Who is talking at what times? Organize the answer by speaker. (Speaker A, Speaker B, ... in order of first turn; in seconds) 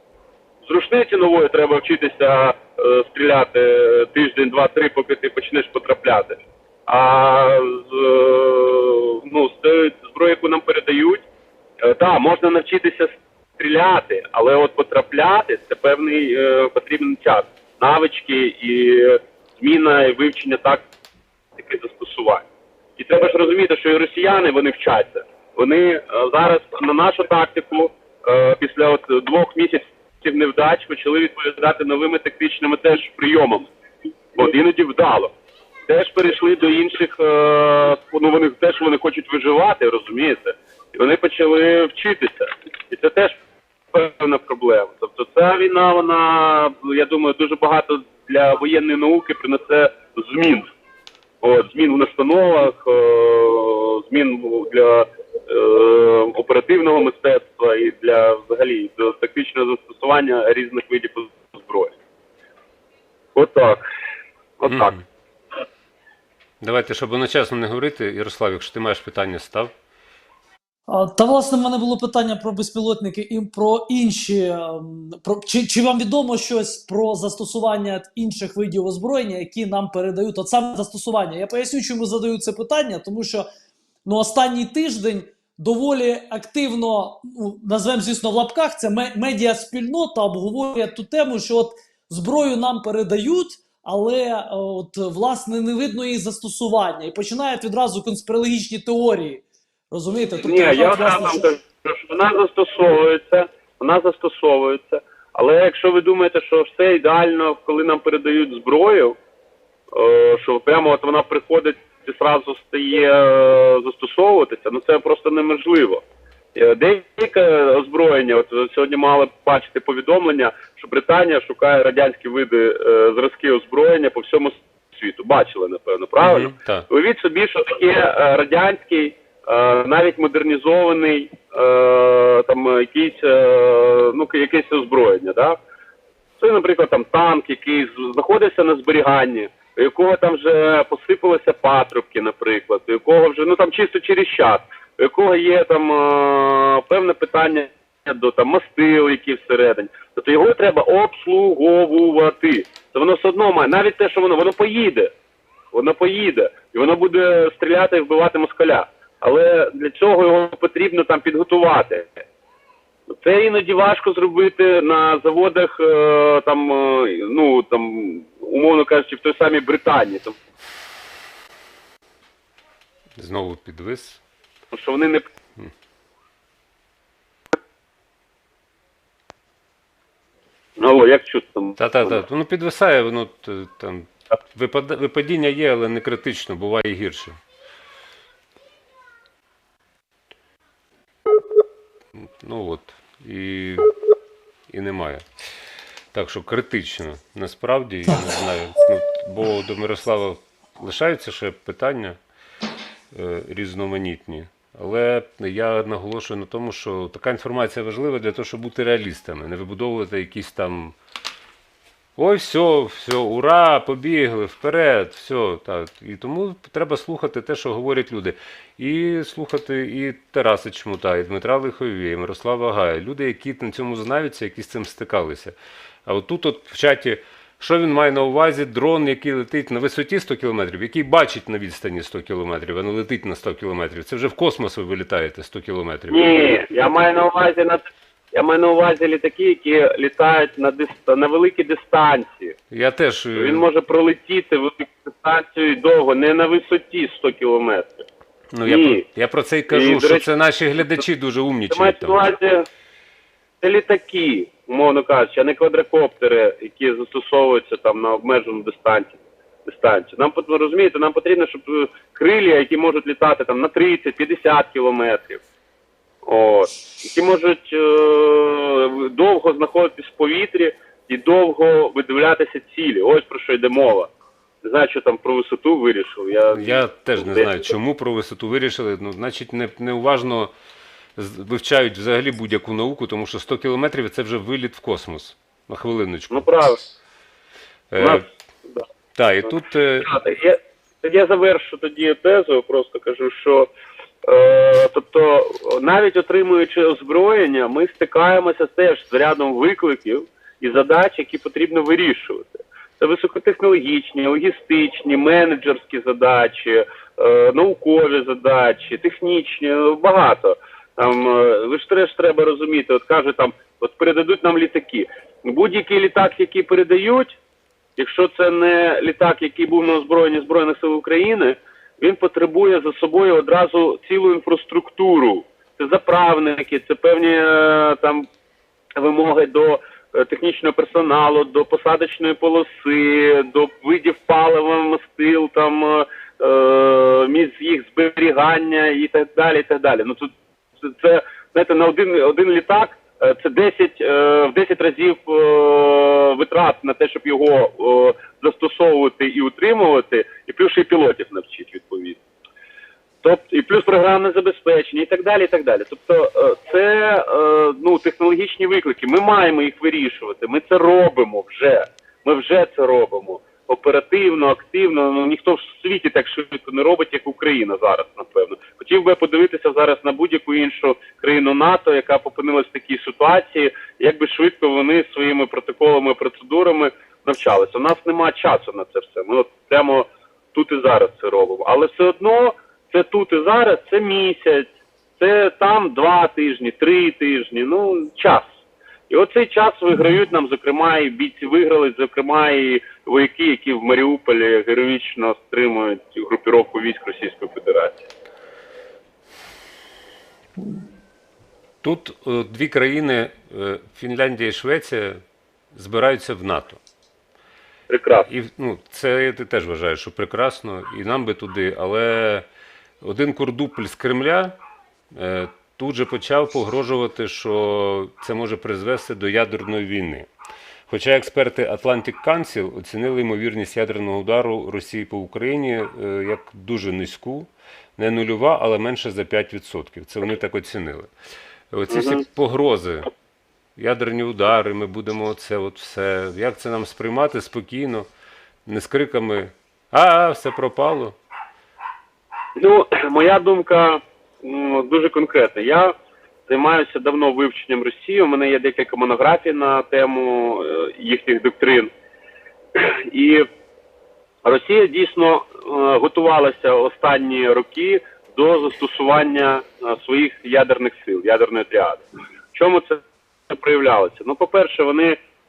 Speaker A: 0.6-11.3, 11.8-20.8, 21.6-22.5, 23.0-33.7, 34.4-35.3, 35.9-43.4, 43.9-50.7, 51.4-62.0, 63.4-63.9, 64.6-65.0, 100.4-109.2, 109.9-116.0, 116.5-135.6, 136.4-155.1, 155.7-162.1, 163.1-170.4, 174.7-175.3, 180.8-182.2, 236.1-242.6, 243.4-248.0, 248.7-249.0, 249.7-250.2, 251.7-252.7, 253.6-265.4, 266.2-274.1, 274.6-277.6, 286.3-286.8, 288.0-288.9, 290.0-293.7, 294.2-317.4, 318.0-328.3, 329.0-352.2, 353.2-388.5, 389.1-398.1, 407.9-408.3, 431.9-432.2, 442.6-445.9, 446.5-451.9, 452.8-453.5, 454.4-465.2
Speaker B: 64.7-65.0, 66.6-69.7, 126.2-126.9, 173.2-174.2, 181.8-187.4, 192.4-193.9, 194.7-195.2, 196.1-202.2, 203.1-211.0, 212.2-225.6, 226.1-236.3, 242.7-243.7, 248.5-252.2, 276.5-280.5, 281.2-286.5, 287.9-288.2, 289.1-290.1, 401.8-405.2, 405.7-406.8, 408.3-412.5, 413.0-414.6, 415.1-420.3, 420.9-431.1, 431.7-433.1, 433.8-438.1, 438.7-441.2
Speaker C: 70.9-83.5, 84.0-101.5